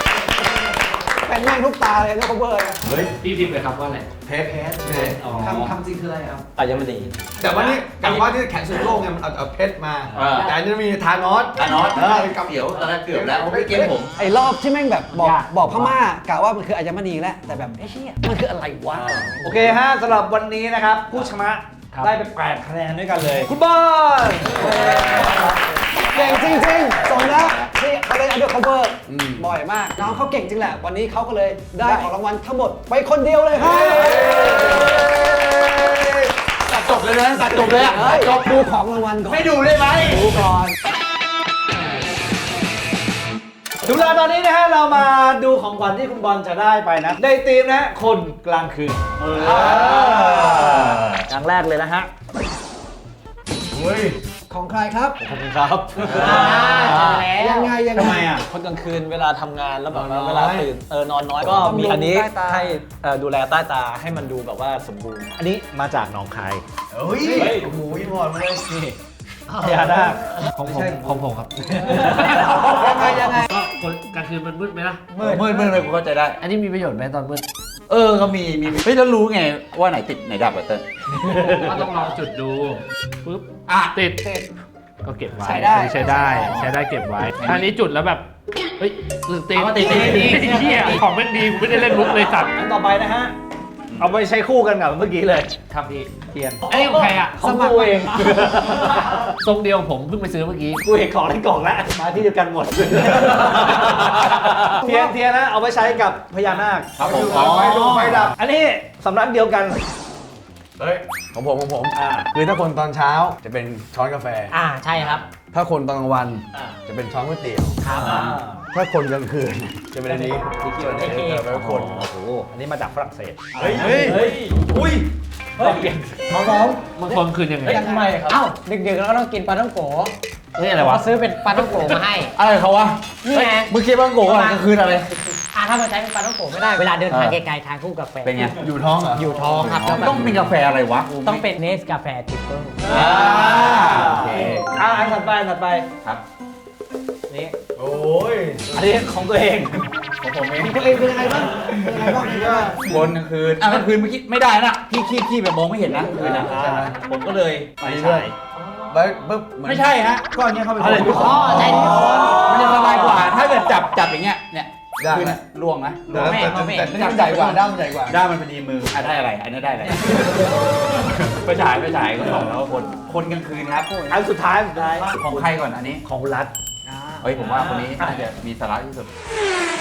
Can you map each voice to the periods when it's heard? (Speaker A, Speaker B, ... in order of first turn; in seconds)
Speaker A: 1.2-2.8, 13.7-19.6, 24.5-25.2, 26.0-34.9, 37.8-40.6, 54.5-55.2, 56.3-58.4, 61.4-62.7, 72.0-73.5, 97.4-98.4, 104.8-105.1, 127.6-128.2, 150.6-152.9, 176.8-177.6
Speaker B: 2.8-3.1, 4.2-6.4, 7.4-14.0, 23.7-24.1, 29.1-29.4, 33.7-35.0, 49.6-50.0, 53.7-54.2, 59.9-60.7, 66.9-68.7, 107.0-108.3, 110.8-114.5, 115.5-118.2, 118.7-122.0, 123.5-125.0, 138.5-139.4, 143.8-144.4, 147.8-148.9, 152.2-153.1, 156.0-156.9, 157.8-158.3, 158.9-159.9, 160.9-162.3, 165.0-165.4, 166.1-168.2
Speaker C: 3.2-4.1, 5.0-5.7, 10.1-10.4, 15.1-15.9, 21.9-22.2, 69.6-75.2, 76.4-77.4, 81.3-84.4, 85.0-88.3, 88.8-92.5, 96.7-97.7, 98.6-100.8, 126.8-127.8, 130.6-131.1
Speaker D: 6.5-8.2, 55.2-57.3, 58.4-65.3, 67.2-67.7, 89.7-90.5, 120.0-121.5, 123.8-124.7, 125.6-126.0, 127.6-128.4
Speaker E: 10.2-10.6, 11.6-14.1, 25.1-25.4, 26.1-26.4, 27.1-27.6, 34.4-35.0, 36.7-38.3, 39.5-40.2, 49.2-51.2, 75.2-76.4, 77.9-80.8, 81.5-81.7, 83.7-84.0, 86.2-86.7, 87.3-87.8, 89.8-90.1, 93.9-94.2, 107.0-108.1, 117.9-118.3, 132.3-135.1, 137.1-137.4, 138.2-138.7, 139.5-141.4, 142.8-144.6, 150.2-152.3, 152.8-158.3, 159.6-174.1, 174.9-176.0, 177.2-179.1
Speaker F: 19.4-23.5, 37.5-38.5, 39.4-40.2, 43.8-52.1, 65.4-66.6, 69.6-71.2, 85.4-86.2, 89.5-91.0, 91.7-93.3, 94.0-96.7, 97.3-99.1, 100.8-109.8, 111.9-112.3, 117.8-118.6, 121.0-124.2, 125.7-126.7, 142.9-145.9, 147.3-147.6, 148.7-149.8, 156.2-157.0, 157.8-158.8, 160.2-163.0, 174.1-175.4, 176.0-176.5, 177.8-178.1
Speaker G: 56.0-57.7, 114.5-115.2, 117.8-118.2, 121.0-121.4, 128.3-130.1, 130.8-132.3, 133.2-133.7, 134.2-134.6, 135.5-138.6, 139.1-140.4, 141.1-142.8, 161.1-162.2, 166.2-166.9